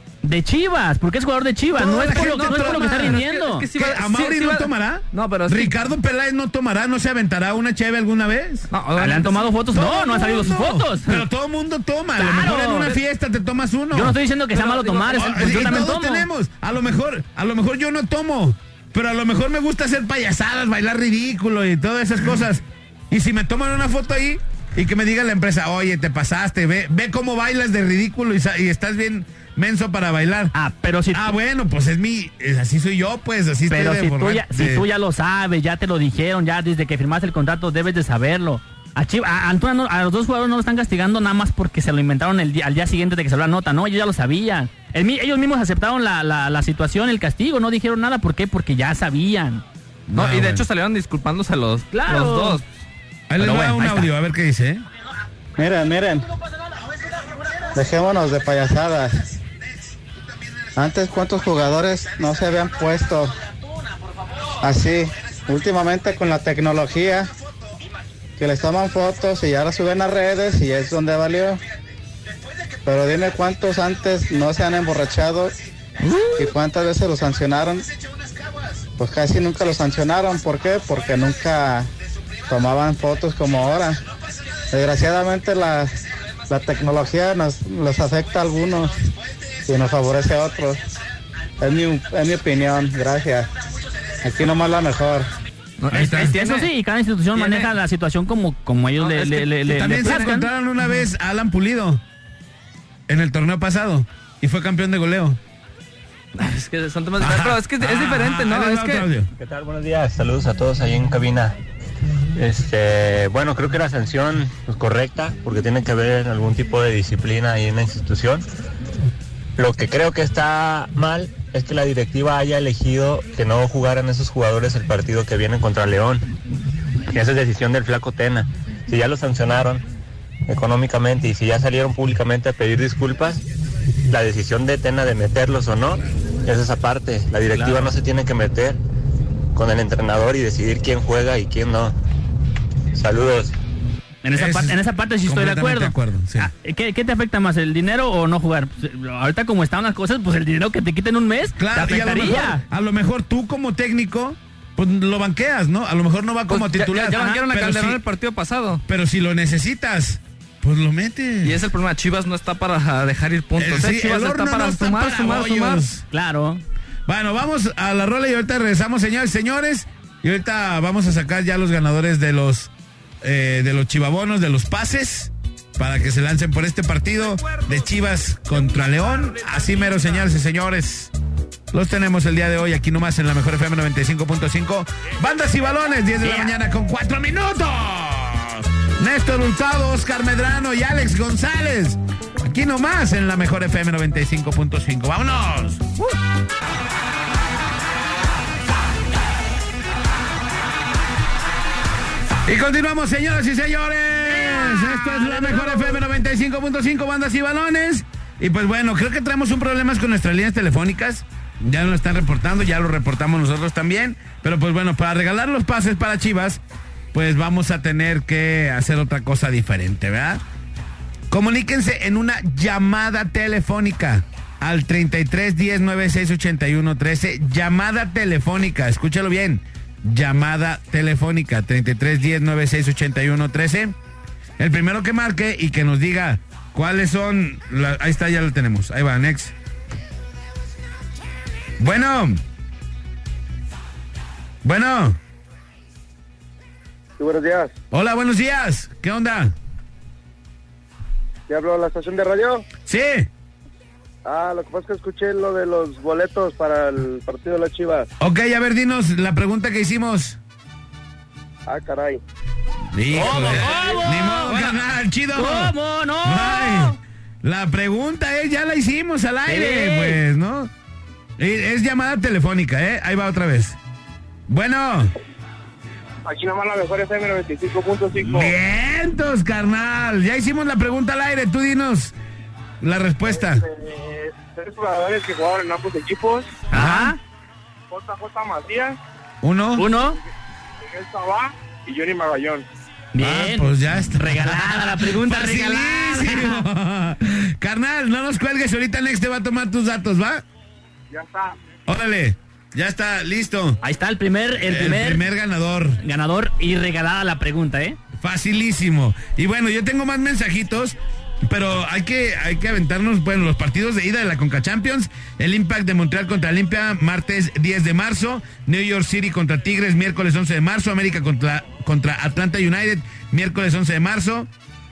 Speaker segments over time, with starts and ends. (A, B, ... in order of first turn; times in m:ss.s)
0:00.2-0:03.6 A
0:01.8-0:03.2 B
0:01.8-0:05.7 C
0:03.7-0:08.7 B
0:08.7-0:09.5 C
0:09.0-0:11.2 A
0:09.7-0:14.2 B
0:12.2-0:13.0 A
0:13.9-0:16.3 A
0:14.5-0:15.8 C
0:15.1-0:30.5 B
0:30.5-0:31.3 A
0:31.1-0:34.8 B
0:33.7-0:49.6 A
0:50.1-0:52.7 C
0:50.1-0:50.6 B
0:51.9-0:52.6 A
0:53.3-0:54.8 B
0:53.4-0:54.1 A
0:55.6-0:56.2 D
0:57.7-0:59.2 D
1:00.8-1:03.3 D
1:04.6-1:07.3 D
1:08.4-1:11.6 D
1:12.8-1:15.5 D
1:16.0-1:16.5 C
1:16.4-1:17.8 D
1:19.0-1:21.9 D
1:22.5-1:24.0 D
1:24.7-1:25.9 D
1:26.5-1:29.0 D
1:29.6-1:30.8 D
1:31.6-1:33.5 D
1:34.2-1:35.3 D
1:35.8-1:36.7 C
1:35.9-1:40.5 A
1:37.3-1:37.7 C
1:39.0-1:39.5 C
1:39.6-1:42.0 B
1:43.1-1:45.4 B
1:46.4-1:49.1 C
1:47.2-1:49.3 B
1:49.3-1:51.6 E
1:52.4-1:58.4 E
1:59.6-2:06.3 E
2:07.1-2:09.8 E
2:10.5-2:13.4 E
2:14.1-2:18.8 E
2:17.5-2:17.9 A
2:19.5-2:21.9 E
2:22.9-2:23.5 E
2:24.2-2:32.6 A
2:24.3-2:26.5 B
2:31.6-2:38.0 B
2:36.5-2:38.8 C
2:37.1-2:37.4 A
2:38.9-2:41.6 B
2:41.4-2:45.8 C
2:43.6-2:46.0 B
2:46.1-2:46.6 A
2:47.1-2:52.7 B
2:53.2-3:01.1 B
3:01.7-3:15.9 B
3:06.2-3:06.5 A
3:22.4-3:36.6 B
3:24.4-3:26.0 A
3:37.1-3:40.4 B
3:41.3-3:53.9 B
3:54.6-3:59.5 B
4:01.8-4:02.4 B
4:04.6-4:05.2 B
4:07.2-4:07.7 F
4:07.9-4:09.5 B
4:11.5-4:12.6 F
4:12.8-4:13.3 B
4:14.2-4:18.1 F
4:18.2-4:20.4 B
4:21.7-4:22.2 F
4:22.9-4:30.7 B
4:23.1-4:24.7 A
4:23.3-4:23.9 C
4:24.5-4:24.8 C
4:25.3-4:27.0 A
4:29.5-4:30.2 A
4:31.4-4:33.8 B
4:34.5-4:35.1 B
4:36.2-4:38.5 F
4:38.2-4:42.1 B
4:42.8-4:43.6 B
4:43.7-4:46.6 F
4:46.7-4:47.2 A
4:46.7-4:47.2 B
4:47.9-4:49.0 F
4:49.4-4:49.8 B
4:49.8-4:50.2 A
4:50.8-4:52.6 F
4:53.1-4:56.6 A
4:53.2-5:00.4 B
5:01.1-5:01.5 F
5:01.9-5:03.8 B
5:03.8-5:05.2 A
5:04.6-5:06.0 B
5:06.0-5:08.0 A
5:08.2-5:24.5 B